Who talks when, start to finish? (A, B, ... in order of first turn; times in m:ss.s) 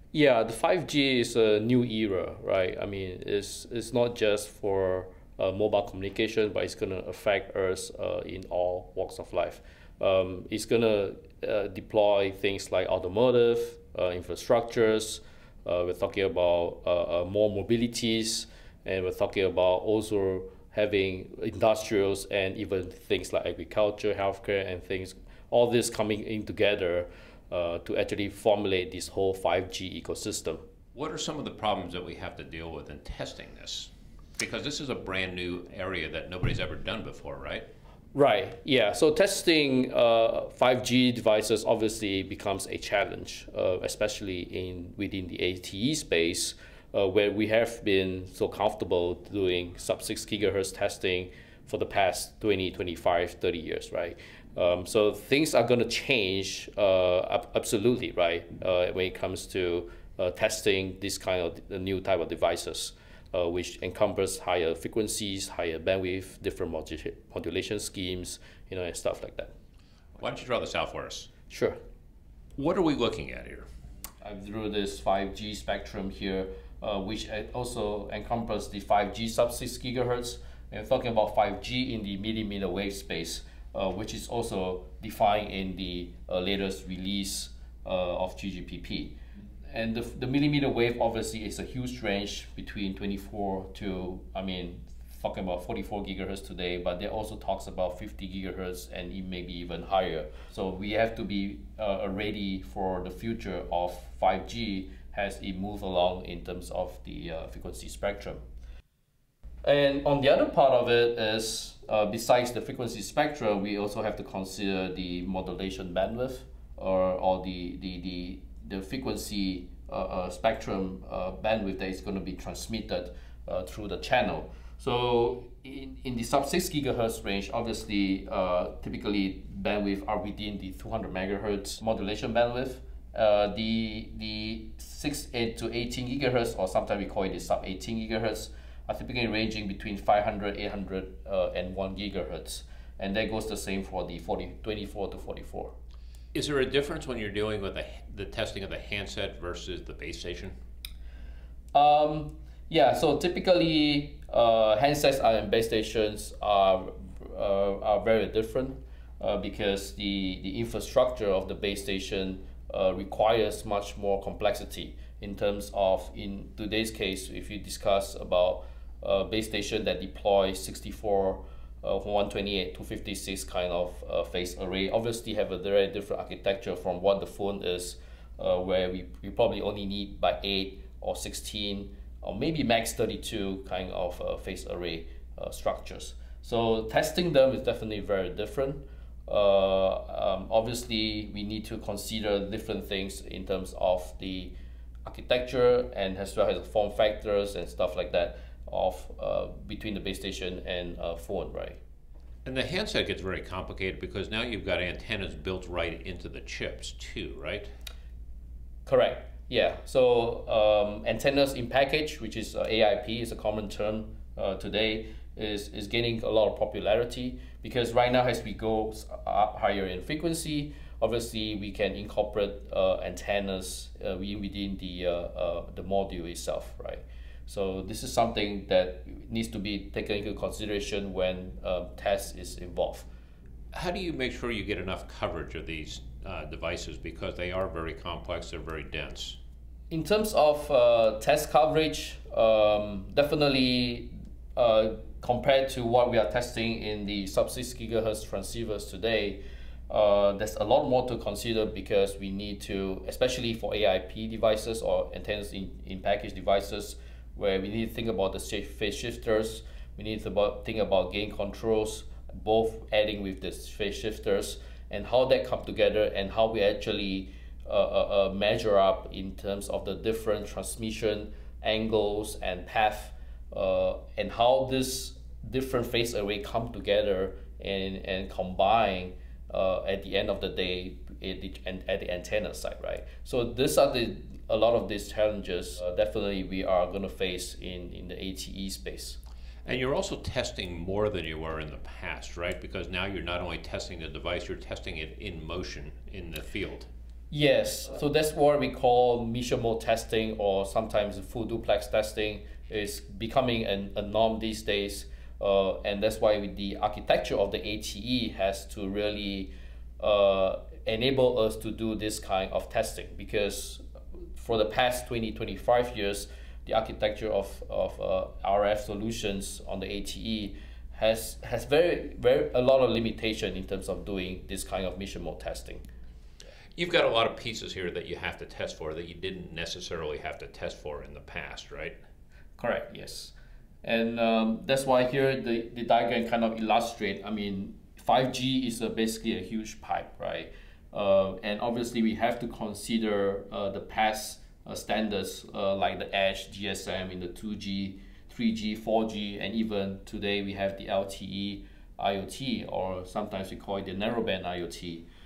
0:00.1-0:30.6 A
0:30.9-0:37.7 B
0:38.2-1:09.5 A
1:10.2-1:11.3 B
1:11.5-1:11.8 A
1:12.6-1:13.7 B
1:14.2-1:29.2 A
1:29.7-1:48.4 A
1:49.6-2:25.7 A
2:26.3-2:30.6 B
2:31.7-3:14.5 A
3:15.1-3:21.8 A
3:22.4-3:27.7 B
3:28.9-3:53.1 A
3:53.7-3:59.4 B
3:59.9-4:49.2 A
4:49.6-4:56.9 B
4:57.3-5:13.8 A
5:14.4-5:25.8 A
5:26.8-5:32.0 B
5:32.6-5:55.1 A